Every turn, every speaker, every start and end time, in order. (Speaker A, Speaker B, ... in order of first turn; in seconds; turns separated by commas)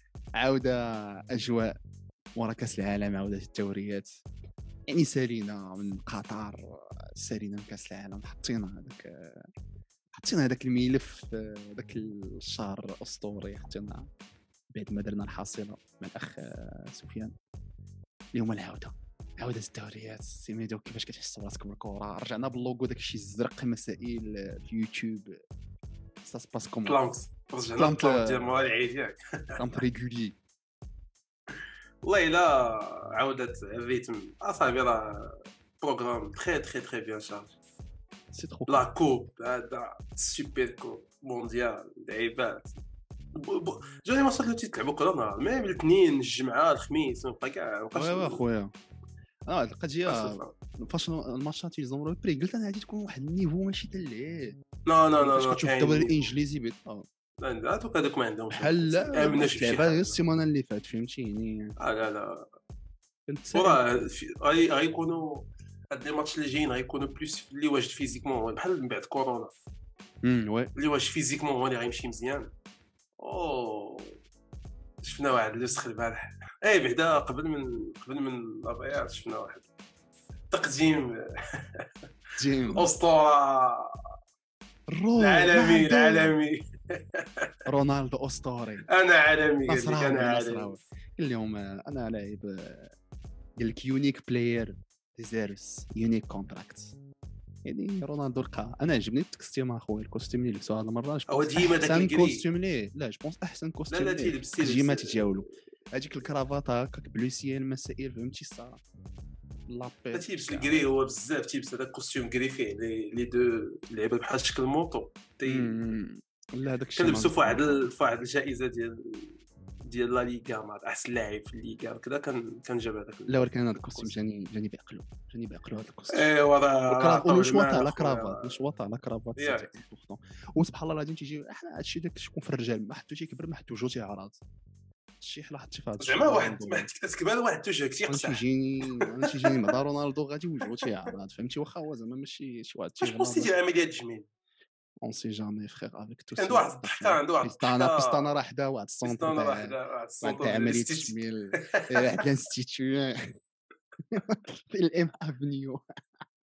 Speaker A: 0.4-1.8, Speaker A: 2.4-4.2, Speaker A: 4.9-9.5, Speaker A: 10.1-14.1, Speaker A: 14.8-17.3, Speaker A: 18.3-25.4, Speaker A: 26.2-27.0, Speaker B: 26.9-29.6, Speaker A: 27.8-28.5, Speaker A: 29.6-30.4, Speaker B: 32.0-37.5, Speaker A: 38.3-38.8, Speaker B: 38.7-42.8, Speaker B: 43.3-48.4, Speaker A: 47.9-48.7, Speaker A: 49.5-54.6, Speaker B: 50.1-50.5, Speaker B: 54.9-56.3, Speaker A: 55.2-57.0, Speaker B: 57.4-60.2, Speaker A: 58.5-61.8, Speaker B: 61.8-62.5, Speaker A: 63.3-63.8, Speaker B: 63.5-69.5, Speaker A: 70.2-70.7, Speaker B: 70.8-72.5, Speaker B: 73.2-74.2, Speaker B: 75.0-79.7, Speaker B: 80.5-81.2, Speaker A: 82.4-82.9, Speaker B: 82.8-84.0, Speaker A: 84.9-86.3, Speaker B: 85.2-87.5, Speaker A: 87.7-88.9, Speaker B: 88.9-90.7, Speaker A: 89.7-92.9, Speaker A: 93.6-97.0, Speaker A: 97.7-108.8, Speaker B: 101.3-102.4, Speaker B: 103.9-105.3, Speaker A: 109.7-110.9, Speaker B: 110.1-115.8, Speaker A: 115.5-117.9, Speaker B: 117.0-124.1, Speaker A: 123.3-126.3, Speaker B: 126.1-128.6, Speaker A: 126.9-134.4, Speaker B: 129.4-129.7, Speaker A: 135.2-136.9, Speaker B: 136.0-139.5, Speaker A: 138.1-143.5, Speaker B: 143.0-144.3, Speaker A: 145.0-153.4, Speaker B: 146.4-148.3, Speaker B: 149.0-152.2, Speaker A: 154.1-155.8